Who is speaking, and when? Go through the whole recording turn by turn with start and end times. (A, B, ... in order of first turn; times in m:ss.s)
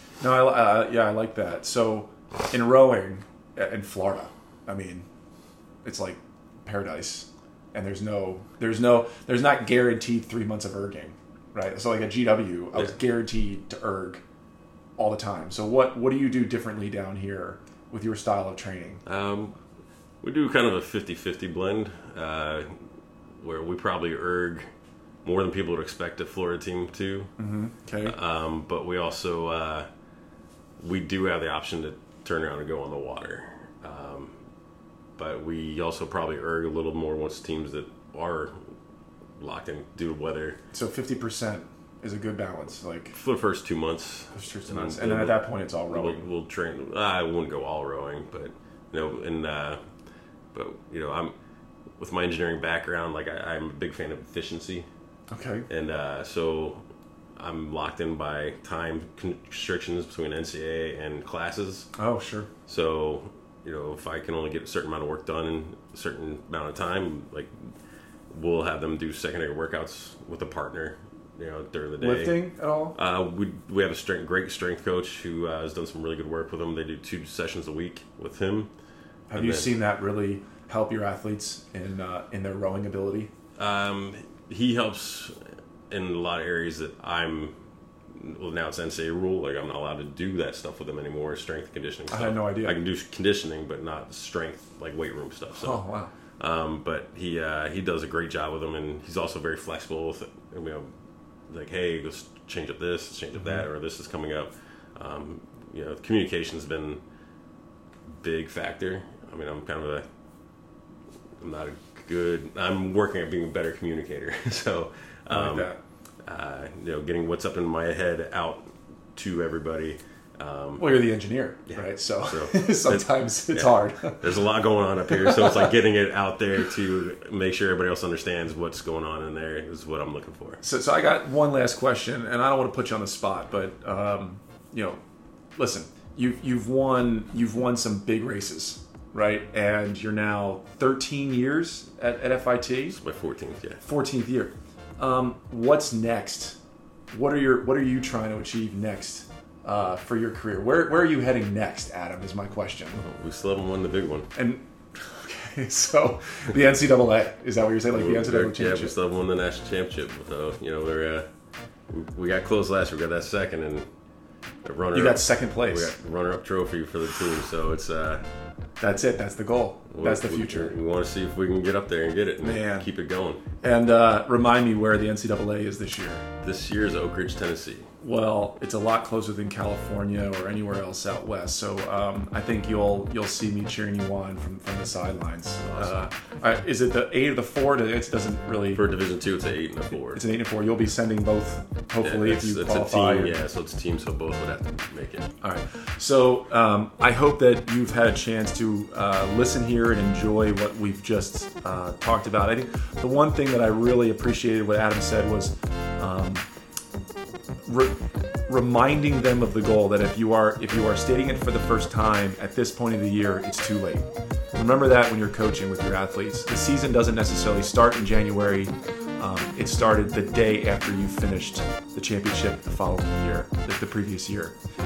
0:00.2-0:05.0 A
0:05.8-0:14.2 A
0:15.0-0:19.0 A
0:19.0-0:19.6 B
0:20.2-0:24.6 B
0:25.2-0:27.3 B
0:27.4-0:28.1 A
0:28.0-0:29.9 B
0:30.8-0:34.4 B
0:35.2-0:38.7 B
0:39.4-0:40.6 B
0:40.7-0:43.1 A
0:43.1-0:49.8 B
0:44.3-0:46.3 A
0:50.5-0:51.3 B
0:52.0-0:54.9 B
0:55.3-0:55.7 A
0:55.7-0:56.8 B
0:57.4-1:01.9 B
1:02.0-1:02.5 A
1:02.7-1:07.7 B
1:08.3-1:12.4 B
1:12.0-1:13.0 A
1:13.0-1:18.7 B
1:19.3-1:23.3 A
1:19.3-1:19.7 B
1:23.6-1:25.4 B
1:25.9-1:27.6 B
1:28.1-1:35.8 B
1:32.1-1:32.8 A
1:35.5-1:36.1 A
1:36.4-1:40.9 B
1:41.5-1:47.0 B
1:43.4-1:43.6 A
1:48.1-1:50.0 B
1:51.4-1:55.7 B
1:55.3-1:55.8 A
1:56.2-2:00.9 B
2:00.8-2:04.4 A
2:01.7-2:10.6 B
2:05.1-2:05.7 A
2:10.6-2:15.0 A
2:15.6-2:23.0 A
2:22.9-2:23.8 B
2:23.8-2:26.6 A
2:27.1-2:33.0 A
2:33.0-2:34.3 B
2:34.4-2:39.0 A
2:37.9-2:41.3 B
2:41.9-2:43.8 B
2:44.6-2:48.2 B
2:44.9-2:45.9 A
2:48.8-2:50.8 A
2:49.9-2:53.4 B
2:52.4-2:52.9 A
2:53.6-2:56.2 A
2:56.4-2:57.9 B
2:58.0-3:08.8 A
3:05.6-3:06.0 B
3:08.7-3:10.2 B
3:10.1-3:13.4 A
3:12.0-3:15.3 B
3:15.4-3:26.4 A
3:27.6-3:44.5 A